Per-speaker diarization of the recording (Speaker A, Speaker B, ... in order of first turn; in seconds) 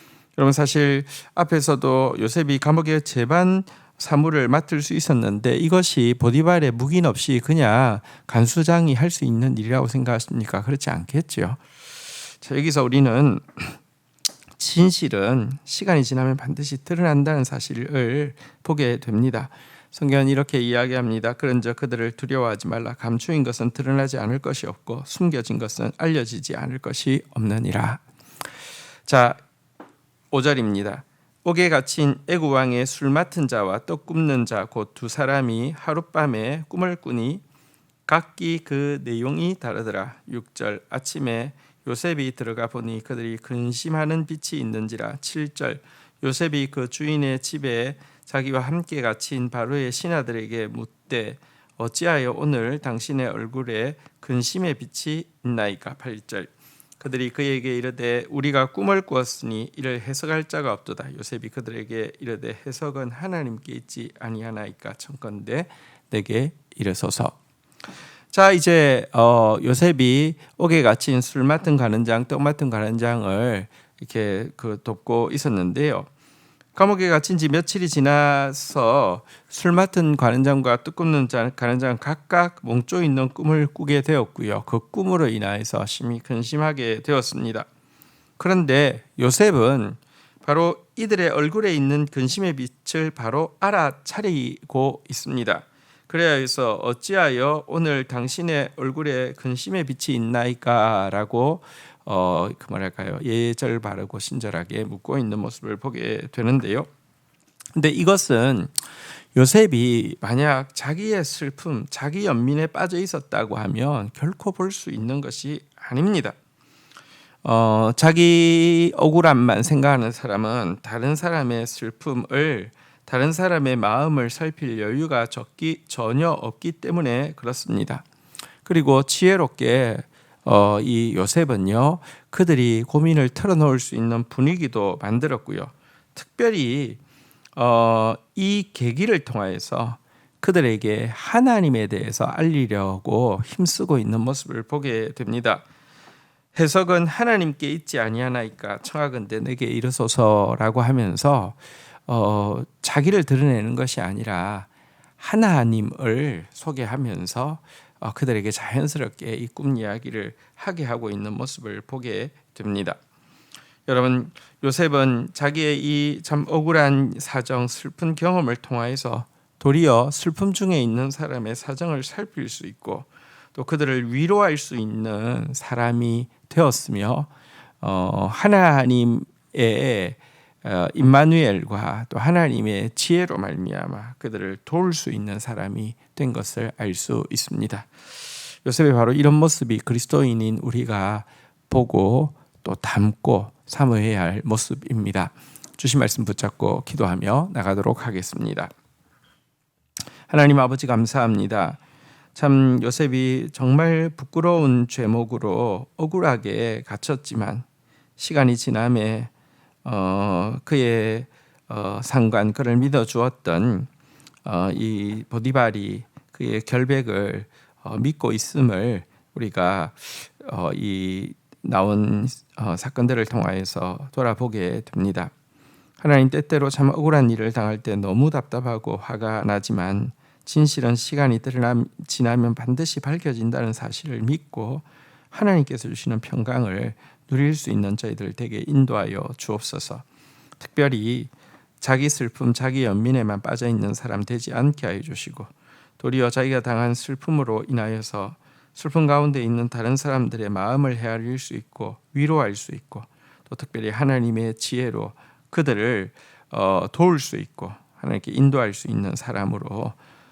Speaker A: 0.4-11.6, 12.2-13.8, 14.6-28.0, 29.1-29.4, 30.3-37.4, 38.1-67.4, 68.3-76.1, 76.7-87.7, 88.4-106.9, 107.7-108.7, 109.3-116.3, 117.4-128.0, 128.7-137.0, 137.6-145.7, 146.5-163.0, 163.9-177.3, 177.8-187.9, 188.6-198.7, 200.3-201.8, 202.3-207.7, 208.2-209.3, 209.8-213.9, 214.4-225.3, 226.0-240.0, 240.6-260.0